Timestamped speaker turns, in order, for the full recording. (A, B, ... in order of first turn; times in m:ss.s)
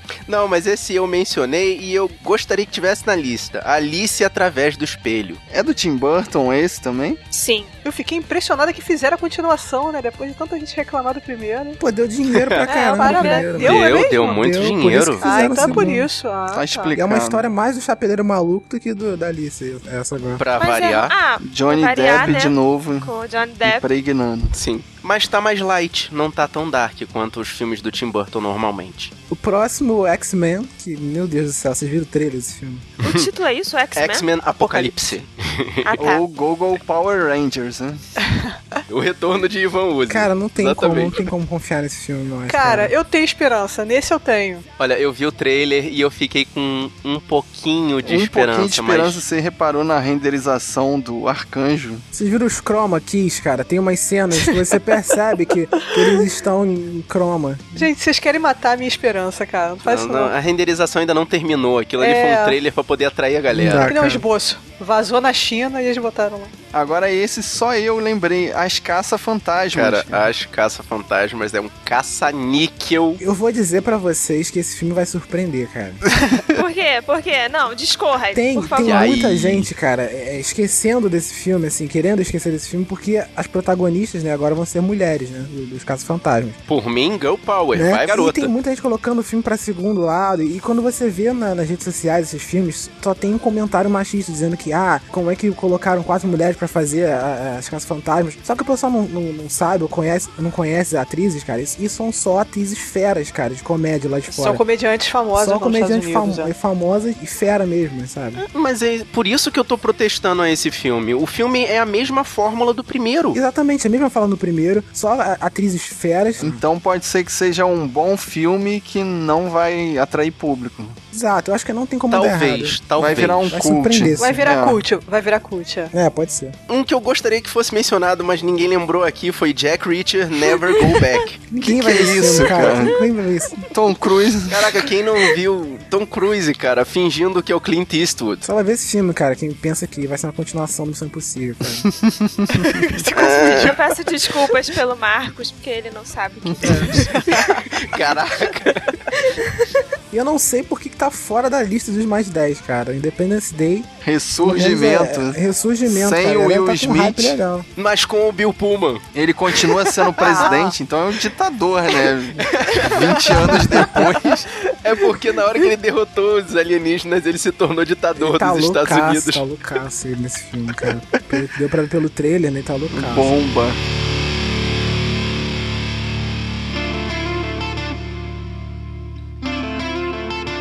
0:00.3-0:05.4 A
0:05.5-0:07.2 B
0:07.3-0:07.7 C
0:07.8-0:11.8 D
0:11.8-0:16.1 E
0:12.3-0:12.7 A
0:12.7-0:13.6 C
0:12.9-0:14.4 D
0:13.6-0:15.7 A
0:15.2-0:16.9 D
0:16.5-0:17.5 B
0:16.9-0:20.4 E
0:20.4-0:21.1 A
0:20.6-0:23.9 C
0:21.4-0:23.1 B
0:23.6-0:24.6 B
0:24.5-0:29.1 A
0:29.3-0:32.9 E
0:33.0-0:34.9 C
0:34.0-0:36.0 A
0:35.9-0:36.2 C
0:36.0-0:38.1 B
0:38.9-0:41.3 A
0:40.1-0:42.9 E
0:42.5-0:44.6 D
0:44.8-0:49.2 A
0:48.0-0:52.0 B
0:52.1-0:57.9 E
0:57.8-1:00.3 D
0:59.8-1:04.0 A
1:02.0-1:02.6 D
1:03.5-1:04.2 E
1:03.8-1:06.5 D
1:06.7-1:10.3 B
1:09.7-1:13.2 A
1:13.2-1:16.0 E
1:16.5-1:19.0 C
1:18.3-1:26.6 E
1:18.8-1:19.7 A
1:26.7-1:28.5 A
1:27.7-1:44.6 E
1:44.3-1:46.5 D
1:45.4-1:48.4 E
1:48.4-1:53.4 A
1:53.3-1:56.6 E
1:56.4-2:01.0 B
2:01.1-2:04.5 E
2:02.1-2:03.6 A
2:03.0-2:04.8 B
2:04.2-2:05.9 D
2:05.9-2:06.6 E
2:06.7-2:11.4 A
2:11.5-2:13.7 E
2:11.6-2:13.0 B
2:13.7-2:14.7 B
2:14.5-2:18.4 A
2:18.4-2:21.9 E
2:21.9-2:22.6 B
2:22.6-2:23.8 D
2:23.2-2:23.8 A
2:23.2-2:27.4 C
2:26.5-2:26.8 B
2:26.6-2:27.0 E
2:26.9-2:27.6 D
2:27.7-2:28.9 A
2:30.1-2:37.7 E
2:34.0-2:37.4 B
2:37.8-2:39.0 A
2:39.2-2:44.5 B
2:40.2-2:40.8 D
2:43.4-2:44.0 D
2:44.8-2:49.4 A
2:48.2-2:53.4 E
2:52.9-2:53.8 B